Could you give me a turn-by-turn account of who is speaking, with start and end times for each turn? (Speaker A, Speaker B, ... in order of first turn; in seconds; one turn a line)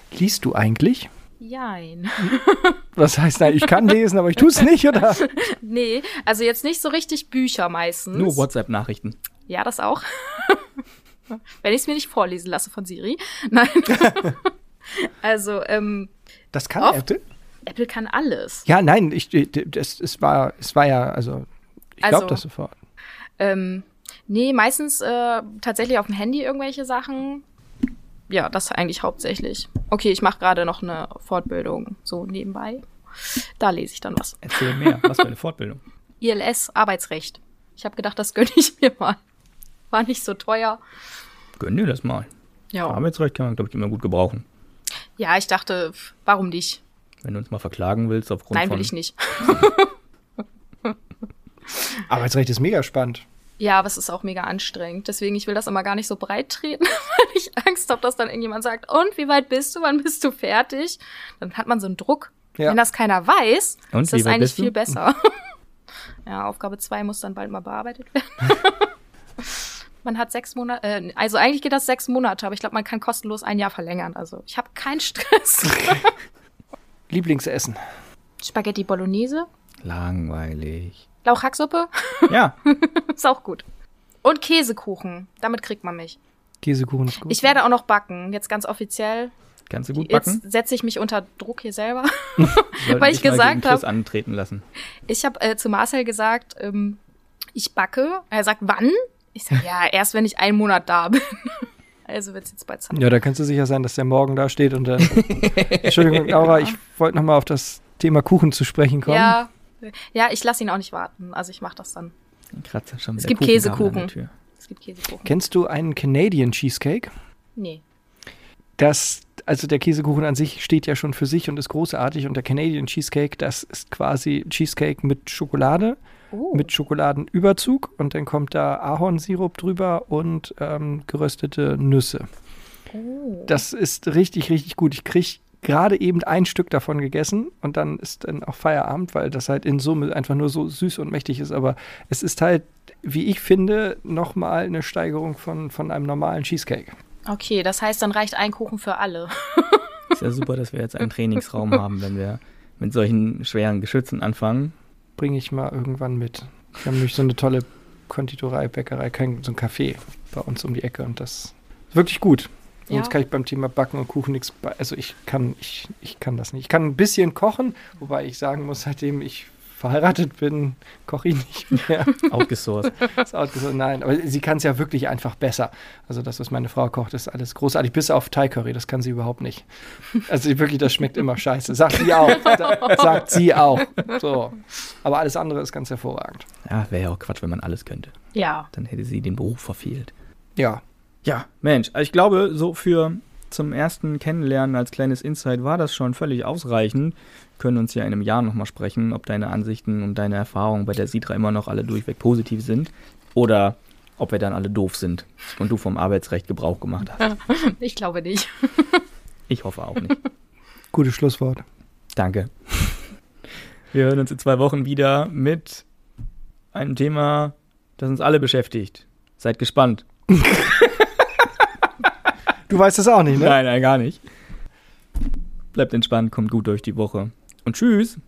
Speaker A: 0.1-1.1
Speaker B: 1.4-2.8
Speaker A: 3.0-5.3
Speaker B: 5.2-8.5
Speaker C: 8.1-9.2
Speaker B: 9.5-10.7
Speaker B: 11.6-16.1
Speaker A: 16.5-17.2
Speaker B: 16.8-17.1
Speaker B: 17.7-18.7
Speaker A: 18.7-21.5
Speaker A: 22.0-22.8
Speaker B: 22.0-22.4
Speaker B: 23.4-27.4
Speaker B: 28.3-35.0
Speaker C: 34.4-35.8
Speaker B: 36.2-39.2
Speaker B: 39.9-40.8
Speaker C: 41.6-42.3
Speaker B: 42.7-43.0
Speaker C: 42.9-44.5
Speaker B: 45.2-46.8
Speaker C: 47.2-48.9
Speaker B: 48.5-50.0
Speaker A: 52.1-53.2
Speaker B: 53.6-65.3
Speaker C: 63.9-64.7
Speaker B: 66.2-76.1
Speaker A: 77.1-77.8
Speaker B: 78.4-79.5
Speaker C: 79.8-81.0
Speaker B: 81.2-83.7
Speaker C: 82.3-82.6
Speaker B: 84.2-86.2
Speaker A: 86.6-87.6
Speaker B: 87.2-89.3
Speaker C: 89.7-90.4
Speaker B: 89.9-93.9
Speaker C: 92.8-94.7
Speaker B: 95.1-97.0
Speaker B: 97.5-103.2
Speaker A: 102.9-109.4
Speaker C: 105.1-106.5
Speaker B: 109.0-112.1
Speaker C: 112.5-114.3
Speaker B: 113.2-115.3
Speaker A: 115.2-117.1
Speaker B: 117.6-117.8
Speaker A: 118.8-126.0
Speaker B: 126.3-126.7
Speaker A: 126.5-132.3
Speaker B: 132.9-133.6
Speaker A: 133.5-146.9
Speaker B: 147.3-149.9
Speaker C: 150.1-154.7
Speaker A: 155.2-172.2
Speaker B: 162.9-163.2
Speaker C: 172.3-173.0
Speaker A: 173.2-179.7
Speaker A: 180.2-186.5
Speaker C: 182.4-183.4
Speaker C: 186.7-188.1
Speaker B: 188.3-188.7
Speaker C: 188.7-190.1
Speaker A: 190.6-190.8
Speaker C: 191.2-207.3
Speaker B: 207.2-209.0
Speaker C: 209.5-210.2
Speaker A: 210.9-211.6
Speaker C: 212.2-212.9
Speaker C: 213.9-215.8
Speaker C: 216.7-220.1
Speaker A: 222.7-223.6
Speaker C: 223.3-224.2
Speaker C: 225.7-228.2